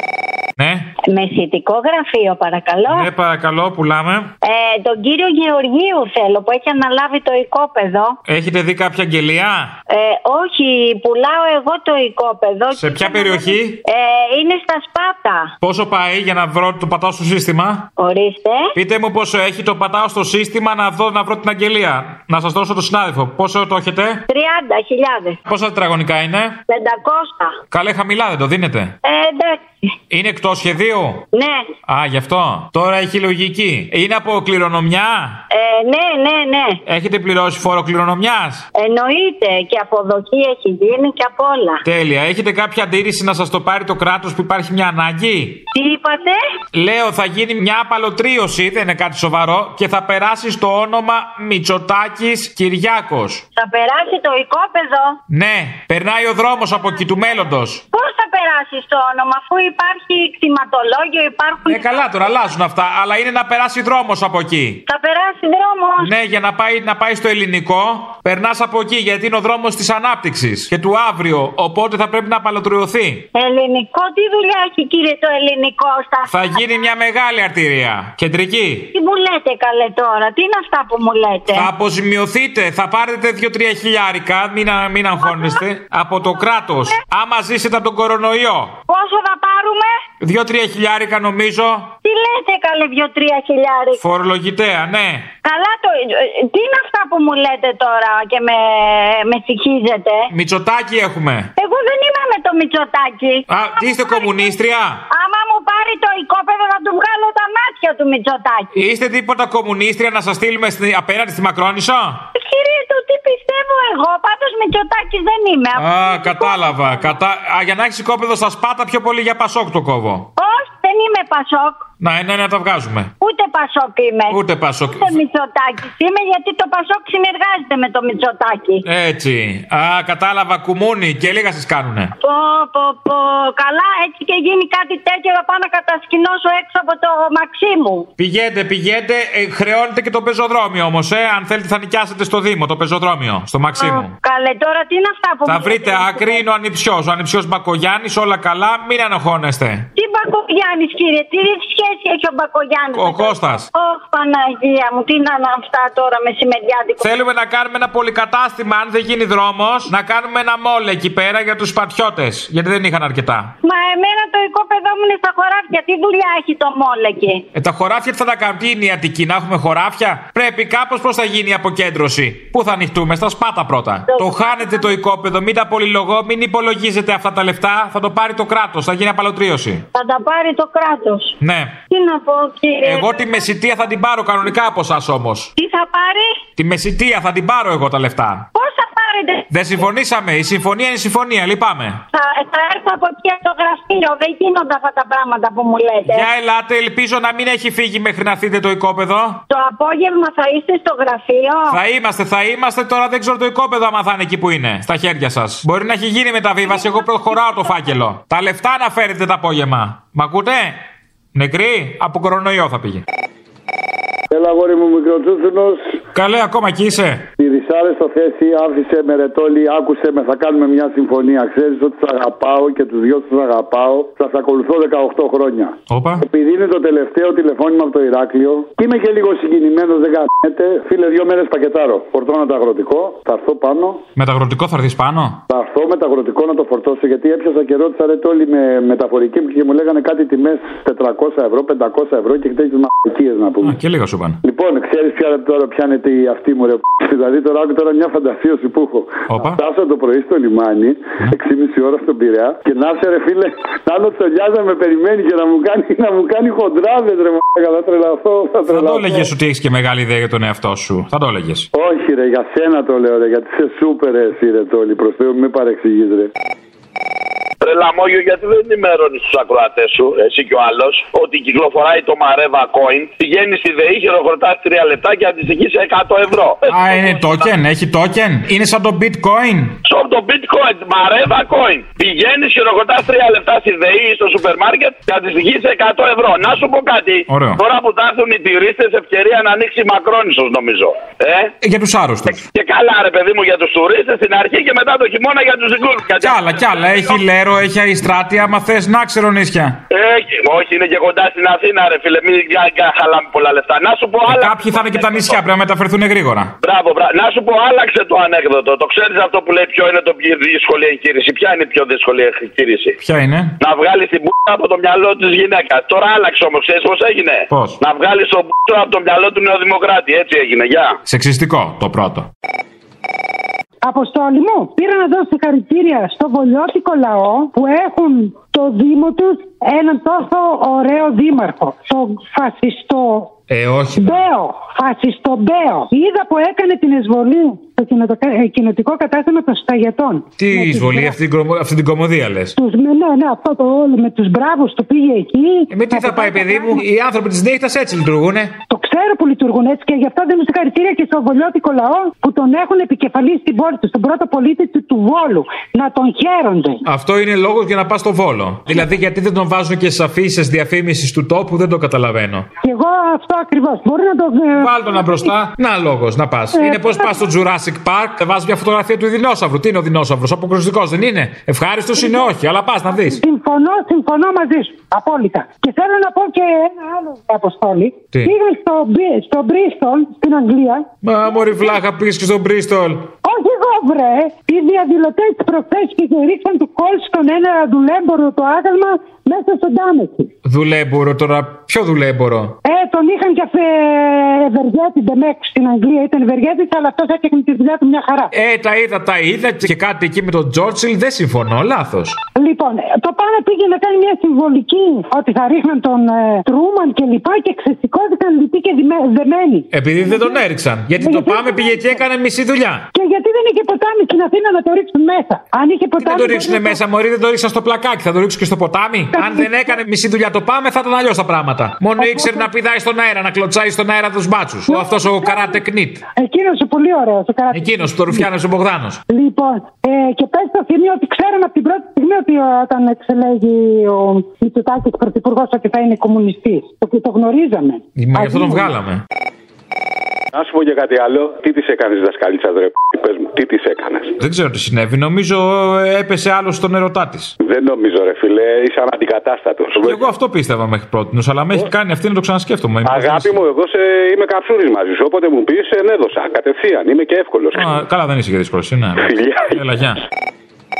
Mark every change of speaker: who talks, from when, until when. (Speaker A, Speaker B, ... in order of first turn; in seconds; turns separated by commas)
Speaker A: 0.6-0.9, Speaker B: 1.1-3.1, Speaker A: 2.9-4.3, Speaker B: 4.4-8.2, Speaker A: 8.3-9.8, Speaker B: 9.9-15.5, Speaker A: 12.7-13.8, Speaker A: 15.6-17.9, Speaker B: 18.0-18.7, Speaker A: 18.8-24.2, Speaker B: 24.3-25.4, Speaker A: 25.5-26.6, Speaker B: 26.7-27.6, Speaker A: 27.7-28.9, Speaker B: 29.0-29.9, Speaker A: 30.1-31.2, Speaker B: 31.3-31.7, Speaker A: 31.9-35.4, Speaker B: 35.5-36.8, Speaker A: 36.9-38.7, Speaker B: 38.8-41.8, Speaker A: 41.8-45.6, Speaker B: 45.7-46.4, Speaker A: 46.7-53.4, Speaker B: 53.5-55.2, Speaker A: 55.3-57.8, Speaker B: 56.7-62.5, Speaker A: 61.7-64.8, Speaker B: 64.9-66.1, Speaker A: 66.0-73.3, Speaker B: 73.3-76.6, Speaker A: 76.3-78.9, Speaker B: 78.9-81.7, Speaker A: 81.5-88.8, Speaker B: 85.2-85.6, Speaker B: 86.3-87.0, Speaker B: 88.9-90.0, Speaker A: 90.2-91.9, Speaker B: 92.0-94.0, Speaker A: 94.0-95.3, Speaker B: 95.4-100.3, Speaker A: 100.3-101.5, Speaker B: 101.6-104.5, Speaker A: 103.5-105.0, Speaker B: 105.1-108.7, Speaker A: 108.7-112.2, Speaker B: 112.3-117.2, Speaker A: 115.8-120.3, Speaker B: 120.4-121.9, Speaker A: 122.0-123.1, Speaker B: 123.2-128.8, Speaker A: 124.3-125.1, Speaker A: 128.8-132.1, Speaker B: 132.2-138.1, Speaker A: 138.2-144.1, Speaker B: 143.8-146.4, Speaker A: 145.5-149.9, Speaker B: 150.0-157.1, Speaker A: 152.9-153.7, Speaker A: 157.0-163.5, Speaker B: 163.6-167.5, Speaker A: 167.6-179.8, Speaker B: 174.1-175.0, Speaker B: 179.9-181.4, Speaker A: 181.4-181.8, Speaker B: 181.9-183.5, Speaker A: 182.8-185.5, Speaker B: 185.6-186.4, Speaker A: 186.6-188.5, Speaker B: 188.5-189.8, Speaker A: 189.5-192.0, Speaker B: 192.1-196.3, Speaker A: 196.1-199.4, Speaker B: 199.5-201.8, Speaker A: 201.7-210.8, Speaker B: 206.8-207.7, Speaker A: 211.3-213.0, Speaker C: 214.3-216.0, Speaker A: 216.1-217.3, Speaker C: 217.4-234.0, Speaker A: 225.9-226.2, Speaker A: 234.2-235.4, Speaker C: 235.5-243.8, Speaker A: 243.6-244.4, Speaker C: 244.4-259.3, Speaker A: 249.3-249.6, Speaker A: 258.7-261.7, Speaker C: 261.7-266.3, Speaker D: 267.6-277.2, Speaker A: 276.7-279.8, Speaker D: 279.9-291.5, Speaker A: 287.3-287.6, Speaker A: 291.6-292.4, Speaker D: 292.5-297.2, Speaker A: 296.2-299.8, Speaker D: 299.9-305.4, Speaker A: 304.2-306.5, Speaker D: 306.6-313.0, Speaker A: 313.0-313.5, Speaker D: 313.6-321.0, Speaker A: 317.5-317.8, Speaker A: 321.1-322.3, Speaker E: 323.8-333.4, Speaker A: 333.5-334.2, Speaker E: 334.0-341.2, Speaker A: 340.4-342.6, Speaker E: 342.6-346.9, Speaker A: 345.7-348.5, Speaker E: 348.7-356.8, Speaker A: 356.9-362.5, Speaker E: 362.6-365.3, Speaker A: 364.6-373.2, Speaker E: 366.5-367.2, Speaker E: 372.0-372.3, Speaker E: 372.9-380.9, Speaker A: 381.0-383.1, Speaker E: 383.2-390.3, Speaker A: 390.4-392.6, Speaker E: 392.6-398.3, Speaker A: 398.3-402.2, Speaker E: 402.4-410.4, Speaker A: 409.7-412.9, Speaker E: 411.0-412.0, Speaker E: 412.9-416.8, Speaker A: 416.0-426.0, Speaker E: 419.1-419.8, Speaker E: 422.0-422.5, Speaker E: 424.7-425.6, Speaker E: 426.1-428.2, Speaker A: 427.5-429.0, Speaker E: 429.1-438.7, Speaker A: 438.0-439.0, Speaker F: 440.3-444.2, Speaker A: 444.2-447.4, Speaker F: 447.4-450.0, Speaker A: 449.8-453.4, Speaker F: 452.9-457.8, Speaker A: 457.6-460.0, Speaker F: 459.0-459.6